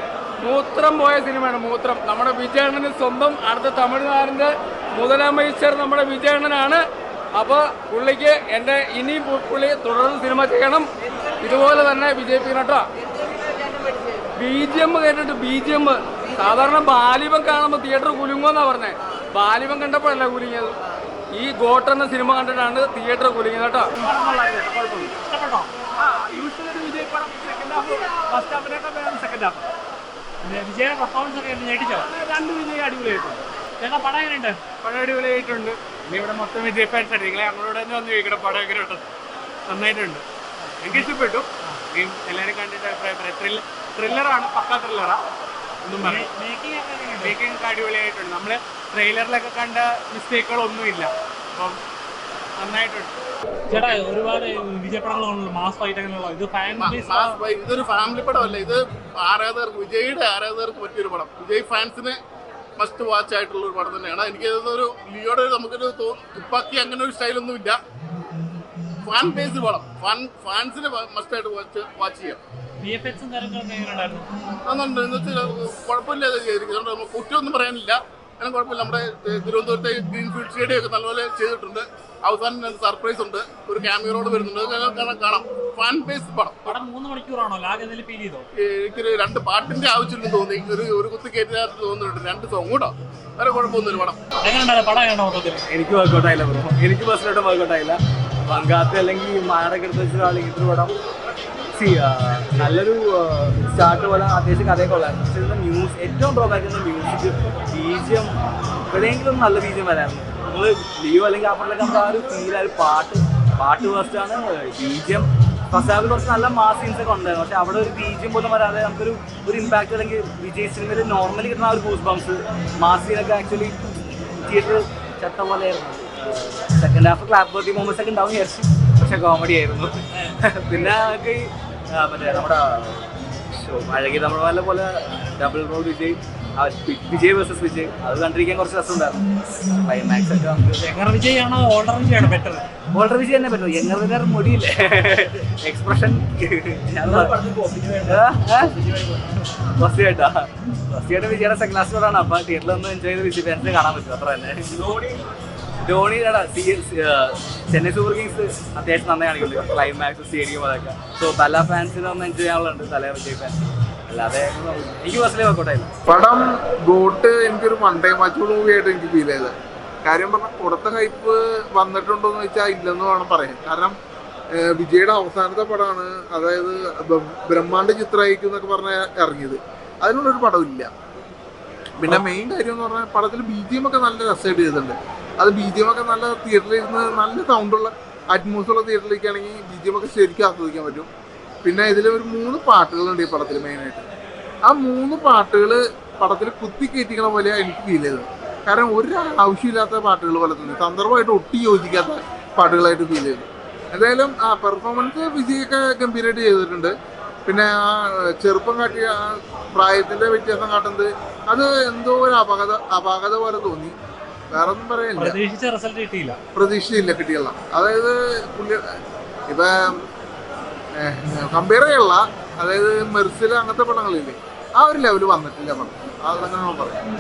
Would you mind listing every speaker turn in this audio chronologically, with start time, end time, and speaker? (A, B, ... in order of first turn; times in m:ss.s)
0:00.4-0:06.8 A
0:07.4-0:10.9 A
0:11.4-0:12.9 A
0:14.4-0:20.7 A
0:21.3-0:23.9 A
0:24.0-0:25.0 B
0:24.1-0:25.7 C
0:26.0-0:29.6 B
0:30.4-0:32.1 C
0:32.0-0:33.4 B
0:33.8-0:34.6 C
0:34.8-0:39.0 B
0:39.7-0:40.2 B
0:40.6-0:41.1 C
0:40.8-0:45.2 B
0:45.8-0:46.3 B
0:46.0-0:47.4 C
0:47.2-0:51.8 B
0:52.6-0:53.1 B
0:53.7-0:57.4 C
0:56.8-1:02.2 D
1:02.8-1:07.8 D
1:09.0-1:12.4 D
1:12.8-1:14.3 C
1:14.7-1:26.7 D
1:26.6-1:28.5 C
1:28.6-1:34.2 D
1:34.4-1:35.6 C
1:35.7-1:40.9 E
1:41.8-1:48.3 E
1:48.9-2:03.8 E
2:04.4-2:19.3 E
2:19.8-2:20.8 E
2:20.8-2:22.6 C
2:22.9-2:27.3 E
2:27.5-2:28.0 C
2:28.0-2:28.8 E
2:29.8-2:34.9 E
2:35.8-2:43.6 E
2:44.1-2:45.9 E
2:46.1-2:49.5 F
2:50.0-2:54.0 F
2:54.6-3:00.9 F
3:02.0-3:11.1 F
3:11.6-3:14.0 F
3:14.7-3:26.9 F
3:27.5-3:33.9 F
3:34.5-3:35.4 F
3:35.2-3:36.4 C
3:36.6-3:38.8 F
3:39.5-3:40.0 F
3:41.0-3:47.0 F